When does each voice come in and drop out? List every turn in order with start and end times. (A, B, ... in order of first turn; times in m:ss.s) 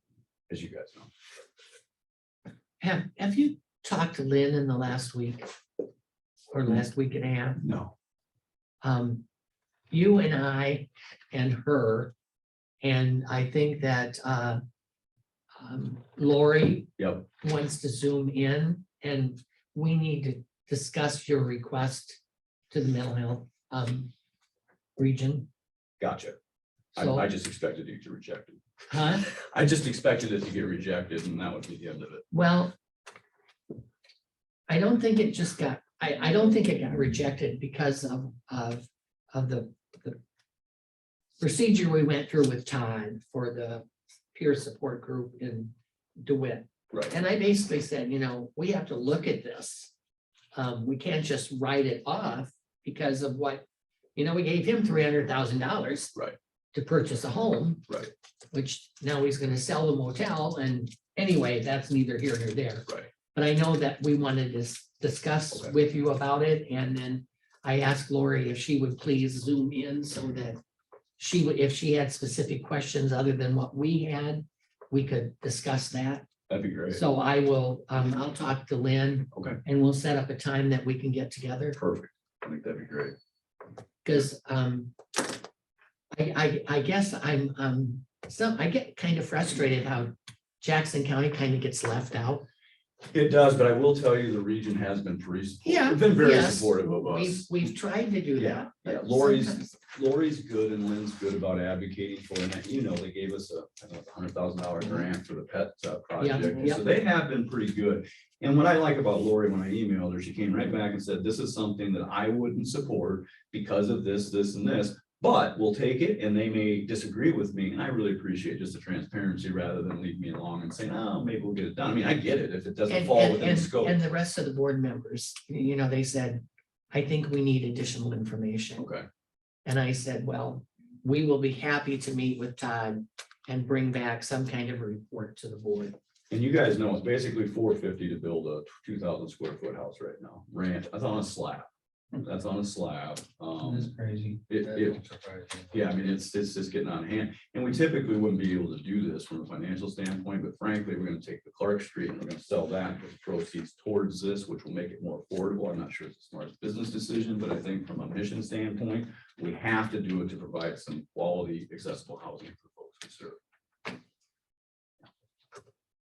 0:00.5-0:01.1 A
0:02.8-0:05.5 B
0:06.5-0:07.6 B
0:07.6-0:07.9 A
0:08.8-0:09.2 B
0:09.9-0:12.1 B
0:12.8-0:14.6 B
0:15.6-0:22.2 B
0:17.0-0:17.2 A
0:22.7-0:24.1 B
0:25.0-0:25.5 B
0:26.0-0:26.4 A
0:26.9-0:28.6 A
0:27.0-0:27.2 B
0:28.9-0:29.2 B
0:29.2-0:32.2 A
0:32.3-0:32.7 B
0:34.7-0:40.2 B
0:41.4-0:49.9 B
0:50.5-0:53.6 B
0:54.2-0:56.1 B
0:56.7-0:57.9 B
0:58.5-1:10.6 B
1:11.2-1:16.3 B
1:16.5-1:17.0 A
1:16.9-1:21.8 B
1:19.3-1:19.6 A
1:21.7-1:23.2 A
1:24.0-1:24.9 B
1:26.1-1:32.4 B
1:33.1-1:37.5 A
1:35.6-1:39.7 B
1:38.4-2:04.0 A
1:46.2-1:46.8 B
2:02.9-2:08.8 B
2:08.8-2:09.0 A
2:09.6-2:16.0 B
2:16.3-2:21.7 A
2:22.2-2:23.9 A
2:23.6-2:25.8 C
2:24.5-2:25.0 A
2:25.7-2:43.4 A